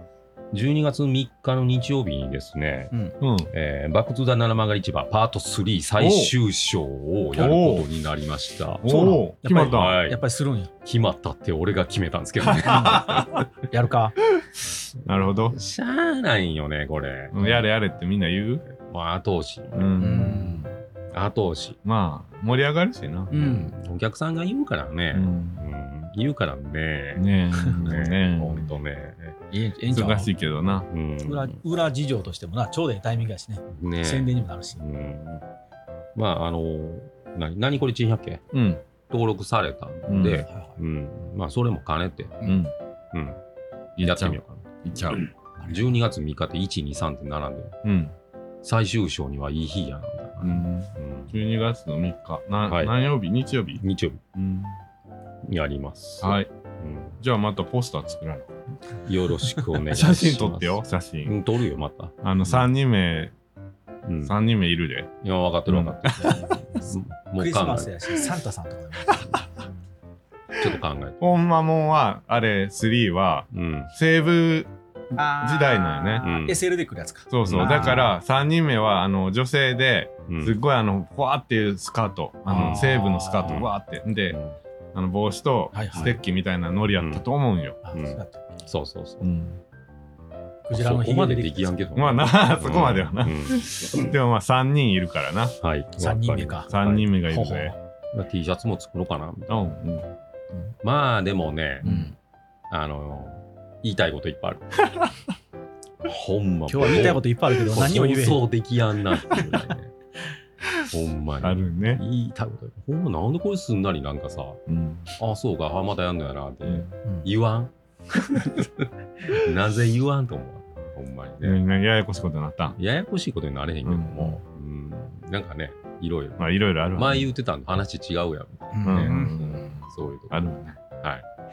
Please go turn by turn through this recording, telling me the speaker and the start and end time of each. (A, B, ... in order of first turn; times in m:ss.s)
0:00.5-0:02.9 A
0:03.2-0:03.5 B
0:03.5-0:08.9 A
0:06.0-0:06.3 B
0:07.3-0:07.9 B
0:08.8-0:10.0 B
0:08.8-0:10.7 C
0:09.6-0:10.2 A
0:10.8-0:13.5 A
0:12.6-0:13.2 C
0:13.7-0:14.1 C
0:15.0-0:15.6 B
0:15.5-0:17.6 A
0:17.3-0:18.6 B
0:18.7-0:19.9 A
0:19.7-0:20.6 B
0:20.0-0:20.7 C
0:21.1-0:21.8 A
0:21.8-0:23.3 B
0:23.3-0:23.7 C
0:23.3-0:27.2 A
0:25.1-0:25.6 B
0:27.1-0:28.7 B
0:27.8-0:29.4 A
0:29.5-0:30.3 C
0:29.9-0:30.9 B
0:30.9-0:31.6 A
0:31.2-0:34.8 C
0:33.7-0:35.4 A
0:36.1-0:38.4 A
0:38.5-0:38.8 B
0:39.1-0:42.4 A
0:40.1-0:40.4 B
0:40.5-0:40.8 C
0:42.4-0:42.7 B
0:43.1-0:43.4 A
0:44.0-0:45.3 B
0:44.0-0:47.8 A
0:45.6-0:46.0 C
0:47.8-0:48.1 B
0:48.6-0:51.4 A
0:50.4-0:53.8 B
0:52.7-0:52.9 A
0:53.8-0:54.2 A
0:54.3-0:54.8 B
0:55.4-0:57.2 A
0:56.2-0:56.5 B
0:57.2-0:58.6 B
0:59.0-1:02.7 A
0:59.8-1:01.4 B
1:02.2-1:03.3 B
1:04.0-1:04.4 A
1:04.2-1:05.1 B
1:05.2-1:08.1 A
1:05.6-1:06.6 B
1:07.4-1:09.3 C
1:09.2-1:09.6 A
1:10.6-1:11.2 A
1:11.2-1:14.7 B
1:13.5-1:13.9 A
1:15.1-1:18.1 C
1:15.3-1:16.2 B
1:16.2-1:16.6 A
1:17.3-1:24.4 B
1:17.4-1:18.1 A
1:20.3-1:20.6 A
1:22.5-1:23.6 C
1:22.5-1:22.9 A
1:23.4-1:23.7 A
1:24.3-1:24.6 A
1:24.9-1:27.8 B
1:25.7-1:26.2 C
1:27.0-1:27.2 A
1:27.8-1:28.6 C
1:27.9-1:29.3 A
1:29.2-1:29.6 B
1:30.7-1:31.7 C
1:30.7-1:34.1 A
1:31.9-1:35.6 B
1:35.6-1:37.1 A
1:36.0-1:36.7 C
1:36.7-1:37.7 B
1:37.2-1:37.8 C
1:38.1-1:39.7 A
1:39.5-1:40.7 B
1:40.8-1:41.9 A
1:41.8-1:42.1 B
1:41.8-1:42.1 C
1:42.7-1:44.8 A
1:46.0-1:49.9 A
1:46.7-1:48.4 C
1:50.9-1:54.6 A
1:51.4-1:52.0 B
1:54.7-1:55.1 B
1:55.2-2:01.6 A
2:01.4-2:02.8 B
2:02.8-2:06.4 A
2:03.8-2:04.4 B
2:06.4-2:07.3 B
2:06.9-2:11.2 A
2:08.7-2:09.8 C
2:08.8-2:10.8 B